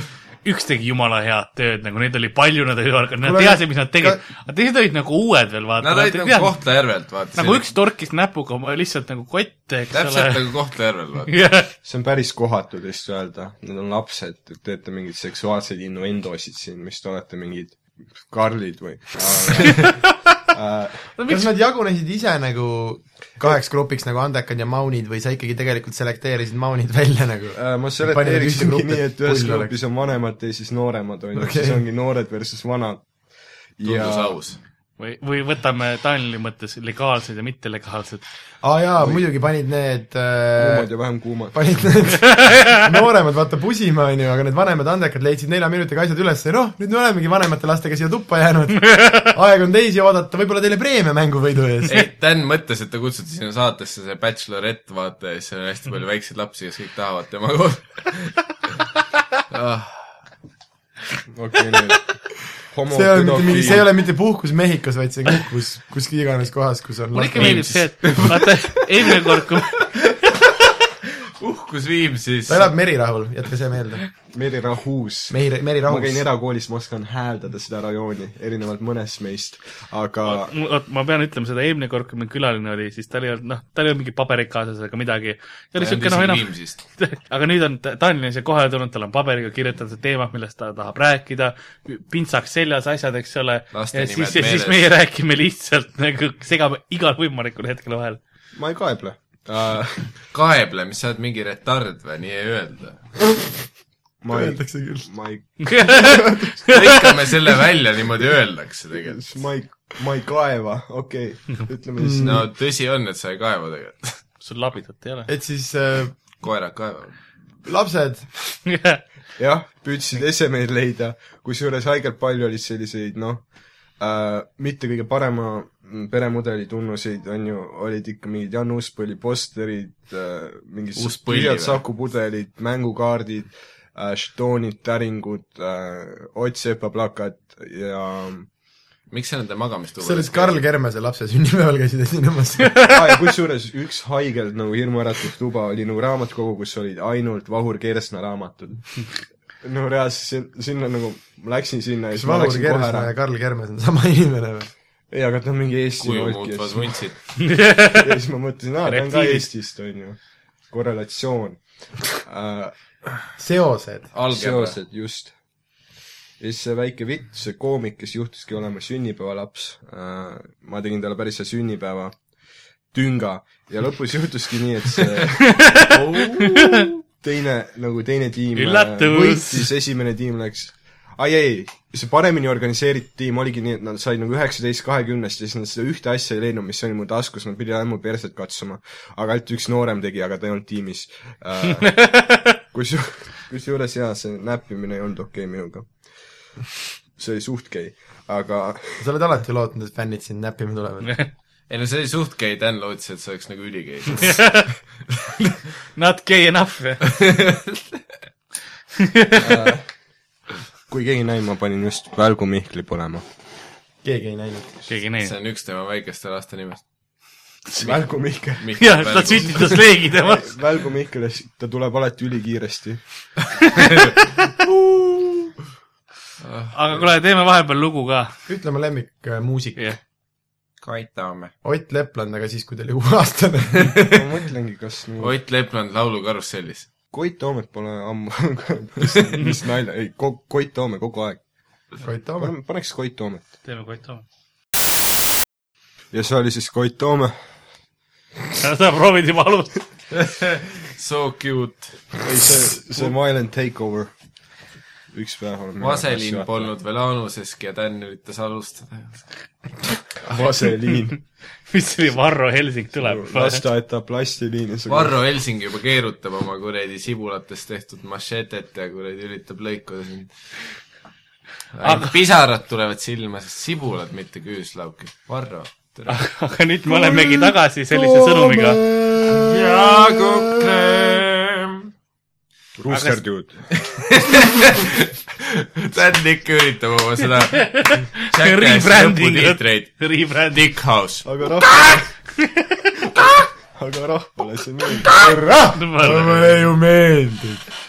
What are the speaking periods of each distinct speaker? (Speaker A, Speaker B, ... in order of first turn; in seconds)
Speaker A: 0.4-6.5, 7.4-10.4, 11.3-11.7, 21.2-21.5, 35.0-38.2, 48.9-49.3, 67.1-69.7, 80.3-98.2, 105.6-107.1, 114.4-115.3, 118.7-119.0, 157.4-158.2, 158.9-159.5, 175.4-176.9, 178.6-179.7, 191.8-192.6, 204.2-204.7, 206.0-207.1, 209.0-209.7, 214.9-215.3, 218.8-220.6, 226.7-228.3, 243.7-244.2, 248.6-249.8, 261.7-263.6, 271.8-272.1, 276.1-278.8, 282.9-283.2, 287.6-290.6, 292.4-292.8, 295.8-296.7
Speaker B: 3.2-4.2, 21.3-29.7, 31.4-31.8, 38.6-40.9, 41.5-52.0, 62.9-68.3, 72.5-74.0, 75.3-76.2, 104.3-105.1, 112.0-112.4, 115.3-116.2, 117.6-118.3, 140.0-143.0, 152.2-154.7, 163.4-164.1, 199.0-201.2, 214.0-214.9, 228.5-229.9, 231.6-234.1, 242.0-242.5, 276.9-281.2, 295.1-297.6
Speaker C: 5.8-7.7, 9.9-11.3, 33.8-34.6, 51.9-58.4, 59.5-60.2, 63.5-63.8, 71.4-72.7, 85.8-86.8, 93.7-94.8, 100.3-103.0, 106.7-109.2, 112.2-114.2, 116.4-117.2, 131.0-131.8, 139.1-140.6, 156.0-157.2, 164.1-164.8, 175.9-176.9, 201.7-204.6, 207.1-207.8, 215.2-216.8, 218.6-219.8, 223.8-224.1, 226.4-226.8, 230.8-231.5, 235.2-236.9, 250.1-252.2, 255.8-259.3, 264.9-270.3, 271.7-276.2, 279.3-281.9, 283.8-291.2
Speaker D: 11.8-21.1, 27.5-33.0, 33.8-34.4, 39.0-39.3, 40.5-41.5, 61.3-62.1, 62.7-63.9, 74.3-80.5, 98.5-100.1, 104.2-106.5, 109.0-112.5, 119.4-123.4, 124.0-138.5, 142.9-153.1, 155.1-157.1, 157.9-160.2, 160.7-163.1, 164.3-165.3, 166.4-172.2, 172.9-175.6, 177.2-192.1, 192.7-195.9, 197.2-199.1, 209.4-209.9, 210.9-213.2, 217.8-218.7, 219.7-223.0, 234.1-235.3, 237.1-241.4, 242.4-243.4, 246.1-247.3, 252.2-254.1, 255.1-256.7, 260.2-261.2, 263.0-265.2, 282.8-283.6, 291.2-292.1, 293.7-295.2